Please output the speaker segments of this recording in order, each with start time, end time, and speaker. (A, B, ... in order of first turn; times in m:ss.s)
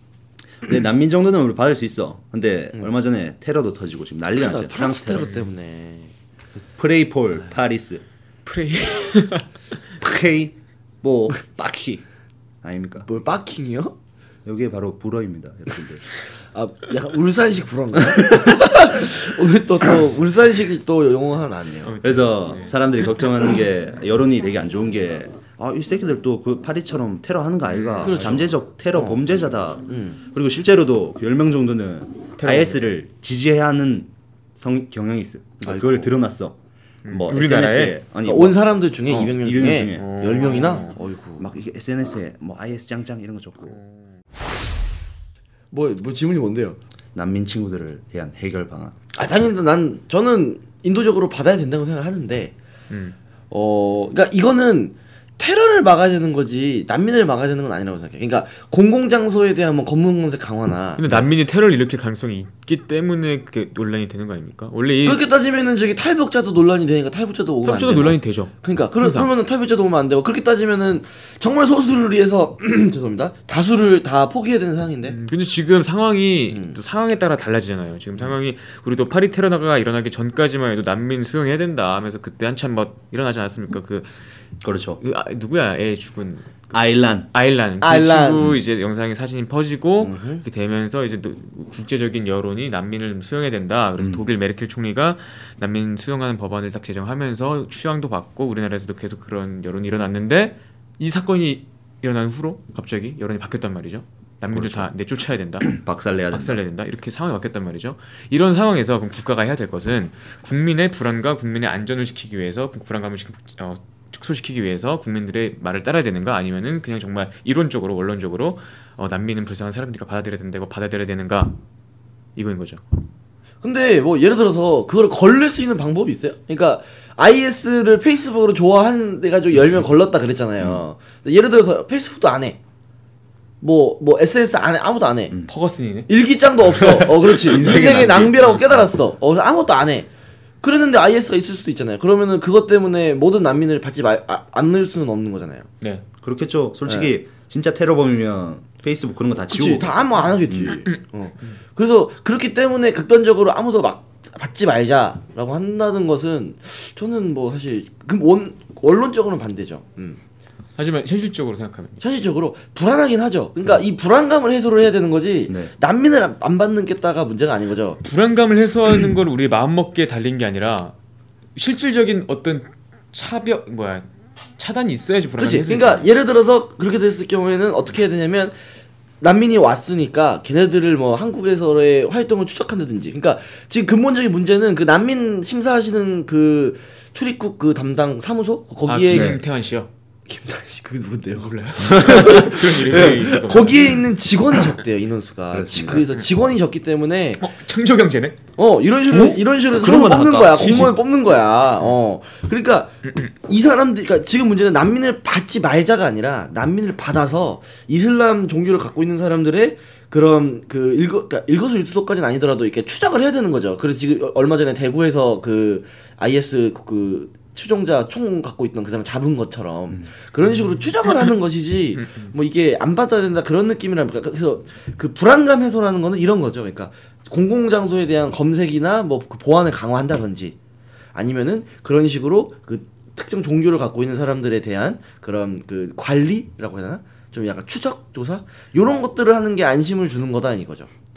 0:00.6-0:05.3 A
0:04.3-0:06.1 B
0:06.7-0:08.0 A
0:08.4-0:09.5 C
0:10.0-0:12.0 A
0:12.6-0:13.1 A
0:13.0-0:13.9 B
0:14.4-0:16.0 A
0:16.4-0:21.9 B
0:21.8-0:22.7 C
0:22.0-0:36.6 A
0:27.7-0:28.4 C
0:28.0-0:29.2 B
0:29.9-0:30.2 B
0:32.4-0:32.9 C
0:35.6-0:36.1 B
0:37.0-0:38.0 C
0:37.1-0:40.2 A
0:38.2-0:41.5 B
0:39.8-0:41.0 C
0:41.4-0:43.8 A
0:43.7-0:44.1 C
0:45.7-0:46.8 B
0:47.1-0:49.0 A
0:49.1-0:52.5 B
0:52.9-0:53.2 C
0:53.5-1:01.2 B
1:01.0-1:05.2 C
1:05.0-1:15.2 B
1:07.6-1:09.3 C
1:15.1-1:24.1 C
1:16.5-1:16.8 B
1:24.6-1:25.0 A
1:25.0-1:26.7 C
1:26.7-1:27.3 A
1:27.3-1:45.8 C
1:27.8-1:28.5 B
1:30.0-1:30.4 A
1:34.0-1:34.3 A
1:44.5-1:44.9 A
1:45.6-1:46.6 A
1:46.3-2:01.6 C
2:02.4-2:02.8 C
2:03.6-2:12.6 B
2:13.6-2:15.4 B
2:15.5-2:16.1 C
2:16.1-2:20.1 B
2:16.8-2:18.5 A
2:17.6-2:18.8 C
2:20.6-2:25.7 B
2:26.2-2:30.8 A
2:29.5-2:40.2 B
2:40.8-2:42.0 C
2:42.0-2:48.0 B
2:48.0-2:50.9 C
2:51.5-2:54.0 C
2:54.6-2:56.1 C
2:55.4-2:58.5 B
2:59.2-3:09.4 B
3:08.8-3:09.9 C
3:09.1-3:09.4 A
3:10.3-3:17.4 B
3:11.4-3:14.0 C
3:15.5-3:16.1 A
3:17.4-3:18.4 C
3:18.6-3:50.6 B
3:19.1-3:21.0 A
3:42.0-3:42.3 C
3:51.1-4:00.9 B